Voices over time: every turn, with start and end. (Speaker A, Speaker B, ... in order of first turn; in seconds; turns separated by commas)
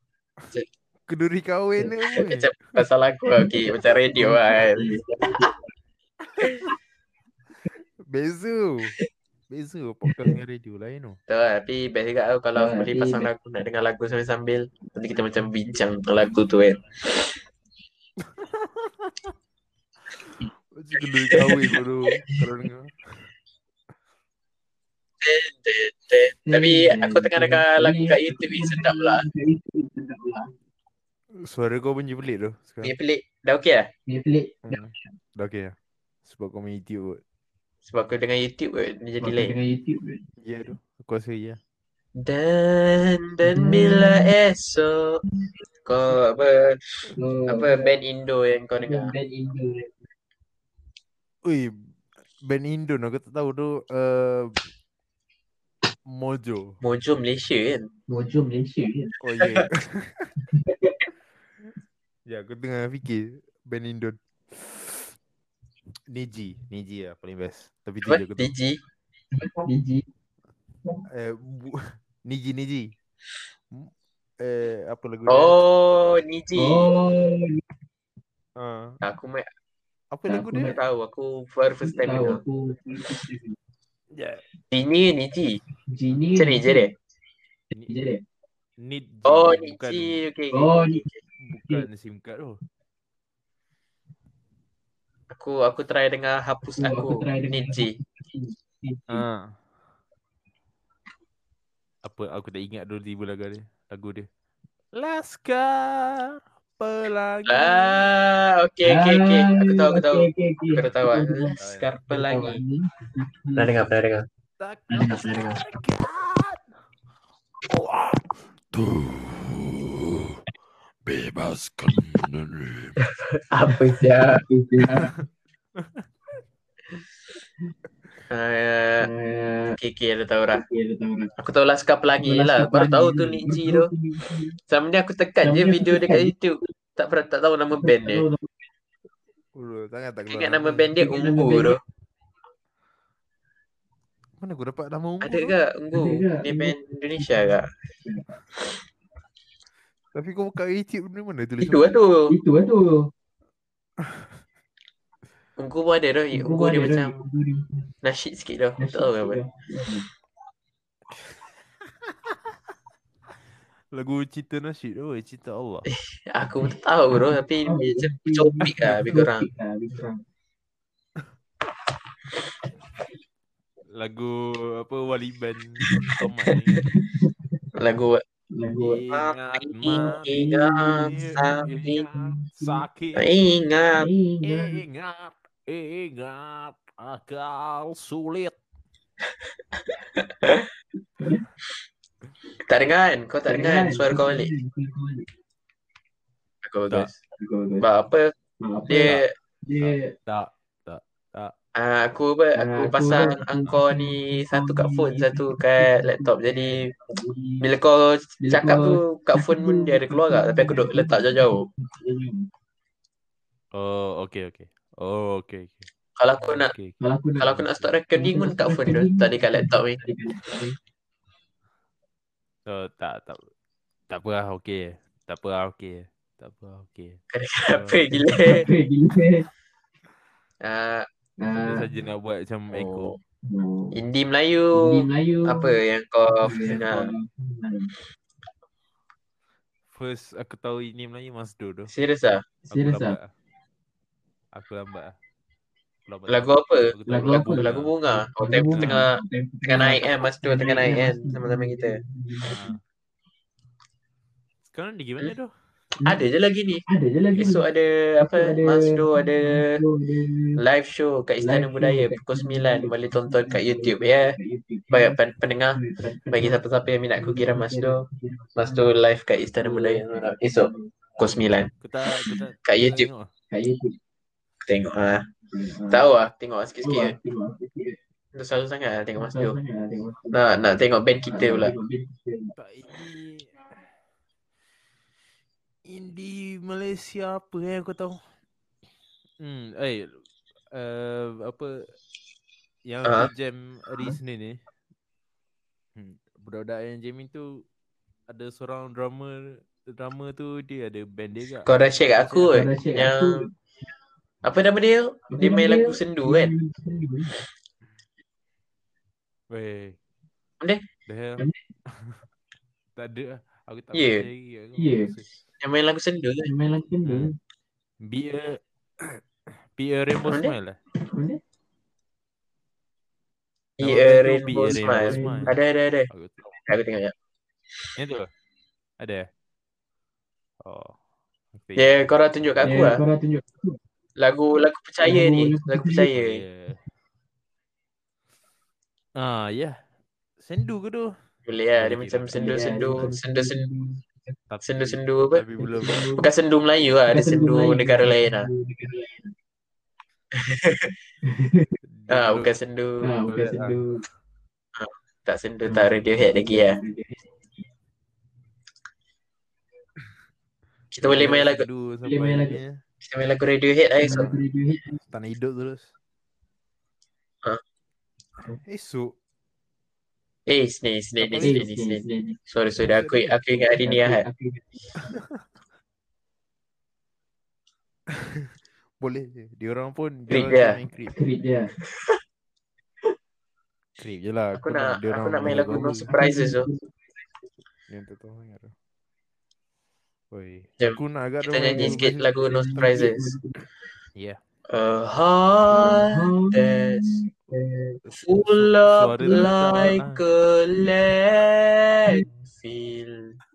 Speaker A: 1.1-2.8, Speaker B: 2.2-4.9, Speaker C: 3.3-5.7, Speaker A: 8.1-9.0, Speaker A: 9.5-11.2, Speaker C: 10.1-10.3, Speaker B: 11.3-16.8, Speaker C: 12.6-13.3, Speaker A: 18.4-19.3, Speaker A: 20.7-23.2, Speaker B: 21.3-21.8, Speaker B: 25.2-29.2, Speaker C: 26.4-30.5, Speaker A: 31.4-32.9, Speaker B: 32.8-33.9, Speaker C: 34.1-34.9, Speaker A: 34.7-37.2, Speaker B: 37.8-39.5, Speaker C: 39.2-40.2, Speaker A: 40.4-41.6, Speaker B: 42.2-45.2, Speaker C: 43.4-44.3, Speaker B: 45.9-49.1, Speaker C: 47.1-47.9, Speaker C: 48.8-50.1, Speaker A: 51.4-51.8, Speaker A: 52.4-54.6, Speaker A: 56.1-56.8, Speaker B: 56.8-57.9, Speaker C: 58.1-59.2, Speaker A: 59.2-60.3, Speaker C: 60.5-61.1, Speaker A: 62.3-65.1, Speaker A: 66.1-68.5, Speaker B: 68.1-68.8, Speaker C: 69.3-70.1, Speaker A: 71.1-72.9, Speaker A: 73.7-75.6, Speaker B: 75.3-76.9, Speaker C: 76.6-77.6, Speaker A: 78.6-79.0, Speaker B: 79.0-79.5, Speaker A: 80.1-80.8, Speaker C: 80.3-80.8, Speaker B: 80.7-82.4, Speaker C: 81.8-83.6, Speaker A: 84.1-84.4, Speaker B: 84.7-85.6, Speaker C: 85.9-86.9, Speaker B: 86.4-86.9, Speaker C: 87.8-88.2, Speaker A: 88.8-90.2, Speaker B: 89.3-91.2, Speaker C: 90.5-91.9, Speaker A: 91.4-92.6, Speaker B: 95.3-97.9, Speaker C: 96.8-99.2, Speaker A: 99.1-99.5, Speaker A: 102.0-104.3, Speaker A: 105.0-108.1, Speaker B: 107.5-112.6, Speaker C: 108.8-111.6, Speaker A: 111.6-111.9, Speaker C: 112.1-113.9, Speaker B: 113.6-114.3, Speaker A: 114.6-116.7, Speaker C: 114.9-115.3, Speaker B: 115.0-115.7, Speaker A: 117.7-120.4, Speaker A: 121.1-122.9, Speaker B: 123.0-124.4, Speaker C: 123.7-125.1, Speaker B: 128.3-129.1, Speaker C: 129.0-129.8, Speaker B: 129.7-130.6, Speaker C: 130.5-131.3, Speaker B: 131.4-133.9, Speaker C: 132.2-134.6, Speaker B: 134.7-138.2, Speaker C: 135.4-136.3, Speaker C: 137.8-138.5, Speaker A: 139.6-140.9, Speaker B: 140.3-141.8, Speaker C: 140.9-141.8, Speaker A: 144.4-145.5, Speaker B: 145.2-147.7, Speaker C: 145.9-148.3, Speaker A: 150.1-151.9, Speaker B: 151.6-152.3, Speaker C: 152.3-153.1, Speaker B: 155.6-157.1, Speaker C: 156.3-157.9, Speaker B: 158.0-159.4, Speaker C: 158.8-160.1, Speaker A: 163.9-165.9, Speaker B: 165.9-169.5, Speaker C: 167.6-170.2, Speaker A: 173.9-176.9, Speaker C: 176.8-177.5, Speaker B: 177.8-178.2, Speaker C: 178.5-179.0, Speaker A: 178.8-183.2, Speaker B: 179.1-182.1, Speaker C: 179.9-181.5, Speaker C: 182.1-182.8, Speaker B: 183.2-184.1, Speaker C: 184.0-184.8, Speaker A: 184.4-188.6, Speaker B: 190.2-190.7, Speaker B: 192.7-194.5, Speaker C: 193.5-195.3, Speaker B: 196.6-197.2, Speaker C: 197.4-197.9, Speaker B: 197.8-198.3, Speaker C: 198.6-200.1, Speaker B: 198.9-199.3, Speaker A: 199.8-201.5, Speaker B: 201.8-206.9, Speaker C: 202.6-207.7, Speaker B: 207.6-211.7, Speaker C: 208.4-212.5, Speaker A: 213.7-217.0, Speaker B: 216.2-216.7, Speaker C: 217.0-220.8, Speaker B: 217.4-220.0, Speaker A: 222.7-223.5, Speaker A: 224.1-228.1, Speaker B: 227.3-228.7, Speaker C: 228.3-229.5, Speaker B: 230.6-231.1, Speaker C: 231.4-231.9, Speaker A: 231.6-233.1, Speaker B: 232.7-233.2, Speaker C: 233.4-234.0, Speaker B: 233.9-237.1, Speaker C: 234.7-237.9, Speaker A: 239.9-241.9, Speaker B: 241.9-242.4, Speaker C: 242.7-243.2, Speaker A: 242.7-243.3, Speaker A: 244.5-245.2, Speaker A: 246.1-247.9, Speaker B: 246.3-252.0, Speaker C: 247.1-252.7, Speaker A: 248.7-249.0, Speaker A: 252.4-252.8, Speaker A: 254.7-255.5, Speaker B: 256.1-256.9, Speaker C: 256.9-257.6, Speaker B: 257.4-259.8, Speaker C: 258.2-260.6, Speaker B: 260.6-264.4, Speaker C: 261.4-265.2, Speaker B: 264.9-268.0, Speaker C: 265.7-266.6, Speaker C: 267.2-268.9, Speaker B: 268.6-271.7, Speaker C: 269.6-271.0, Speaker A: 271.8-273.3, Speaker B: 272.2-273.1, Speaker C: 273.5-274.0, Speaker B: 274.6-275.3, Speaker C: 275.4-276.1, Speaker B: 275.9-277.1, Speaker C: 276.8-278.0, Speaker B: 278.3-279.6, Speaker C: 279.2-280.4, Speaker B: 280.3-281.7, Speaker C: 281.2-282.6, Speaker A: 282.6-283.6, Speaker A: 285.9-288.2, Speaker A: 289.4-290.2, Speaker A: 290.7-291.8, Speaker A: 292.9-294.6, Speaker B: 293.0-293.3, Speaker A: 296.0-297.6, Speaker A: 298.3-302.7, Speaker B: 301.6-303.4, Speaker C: 302.5-303.5, Speaker B: 304.4-306.5, Speaker C: 305.3-307.3, Speaker A: 309.5-310.0, Speaker A: 311.1-312.2, Speaker A: 313.0-315.4, Speaker B: 313.9-314.3, Speaker C: 314.8-315.1, Speaker B: 315.6-316.5, Speaker C: 316.4-317.4, Speaker A: 317.1-317.3, Speaker A: 318.0-319.2, Speaker A: 319.8-320.8, Speaker B: 320.2-320.5, Speaker C: 321.0-321.4, Speaker B: 323.8-326.1, Speaker A: 323.8-325.6, Speaker C: 324.9-325.5, Speaker A: 326.1-326.6, Speaker B: 326.6-327.1, Speaker A: 328.0-328.3, Speaker A: 329.0-329.3, Speaker A: 330.6-331.0, Speaker A: 331.6-332.9, Speaker B: 331.8-333.0, Speaker C: 332.6-333.8, Speaker B: 334.2-336.4, Speaker C: 335.0-336.1, Speaker A: 336.1-336.8, Speaker A: 339.2-339.8, Speaker A: 340.4-341.1, Speaker B: 341.5-343.7, Speaker A: 341.8-343.1, Speaker C: 342.3-344.1, Speaker A: 344.5-346.1, Speaker B: 344.6-345.4, Speaker C: 345.6-346.3, Speaker B: 346.2-348.5, Speaker C: 347.1-349.3, Speaker B: 350.4-351.0, Speaker C: 351.3-351.7, Speaker A: 351.9-353.8, Speaker B: 352.1-353.0, Speaker C: 353.0-354.0, Speaker B: 354.8-356.8, Speaker A: 355.7-356.0, Speaker C: 356.1-357.3, Speaker B: 360.9-361.6, Speaker A: 361.0-362.8, Speaker C: 362.0-362.6, Speaker B: 363.0-364.3, Speaker C: 364.0-365.0, Speaker A: 365.1-365.9, Speaker A: 368.6-369.1, Speaker B: 370.5-374.2, Speaker A: 371.2-371.6, Speaker C: 371.4-372.4, Speaker A: 372.8-373.4, Speaker C: 373.7-375.2, Speaker A: 378.1-378.5, Speaker A: 379.0-381.2, Speaker B: 380.3-380.8, Speaker C: 381.1-381.7, Speaker B: 381.9-382.2, Speaker A: 384.0-386.1, Speaker B: 384.6-386.7, Speaker C: 385.4-387.1, Speaker A: 387.9-388.7, Speaker A: 390.3-392.3, Speaker B: 390.8-393.4, Speaker C: 391.7-393.6, Speaker B: 394.7-397.2, Speaker C: 395.7-398.0, Speaker A: 398.1-400.2, Speaker B: 398.2-403.4, Speaker C: 399.2-399.9